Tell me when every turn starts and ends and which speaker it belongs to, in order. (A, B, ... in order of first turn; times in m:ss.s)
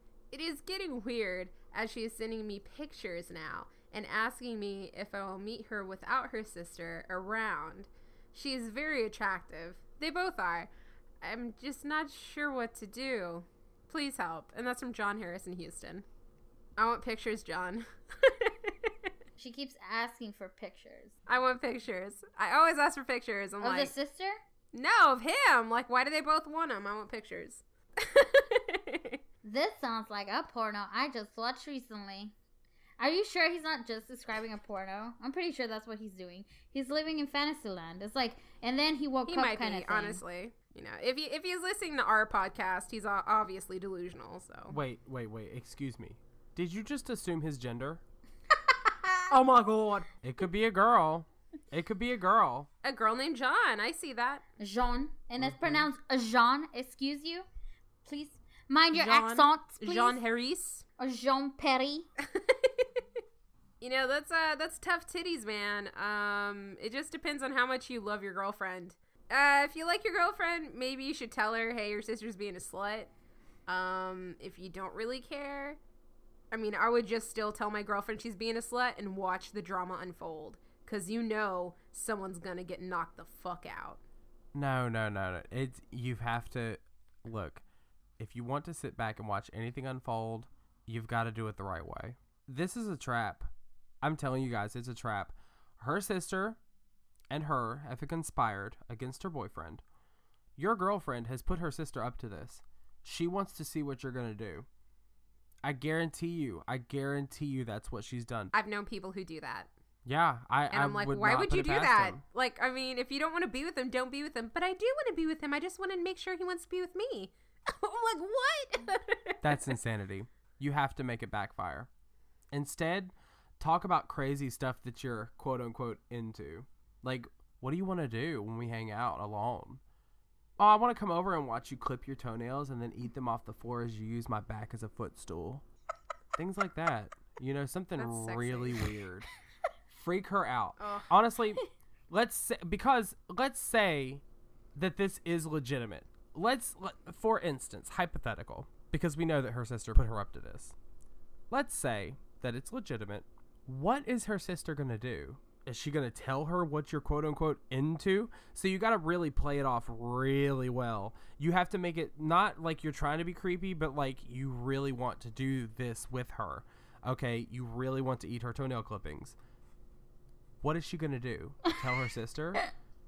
0:00.3-0:10.7 A
0:11.2-0:16.0 A
0:16.8-0:18.7 A
0:19.4-0:21.1 B
0:21.3-0:23.9 A
0:23.6-0:24.4 B
0:24.7-0:29.2 A
0:29.4-0:32.3 B
0:33.0-0:40.2 B
0:39.3-0:44.8 A
0:44.7-0:48.0 C
0:49.3-0:50.0 A
0:49.3-0:52.7 C
0:52.8-0:54.4 A
0:54.6-0:57.4 B
0:55.4-0:55.9 C
0:58.0-1:00.2 B
0:58.9-1:00.8 A
1:01.0-1:02.1 B
1:02.3-1:02.8 A
1:03.8-1:13.1 A
1:13.7-1:15.8 A
1:16.5-1:24.0 A
1:24.5-1:27.6 C
1:28.2-1:33.5 C
1:34.0-1:36.6 C
1:37.3-1:39.8 C
1:40.6-1:44.7 C
1:45.6-1:48.5 C
1:48.5-1:49.7 A
1:50.0-1:52.2 C
1:50.7-1:59.4 A
1:59.4-2:01.9 C
2:02.5-2:09.8 C
2:10.6-2:15.6 C
2:16.4-2:19.2 C
2:18.0-2:18.8 A
2:19.9-2:24.2 C
2:20.8-2:21.1 A
2:24.7-2:30.7 C
2:31.5-2:49.4 C
2:50.6-2:52.6 C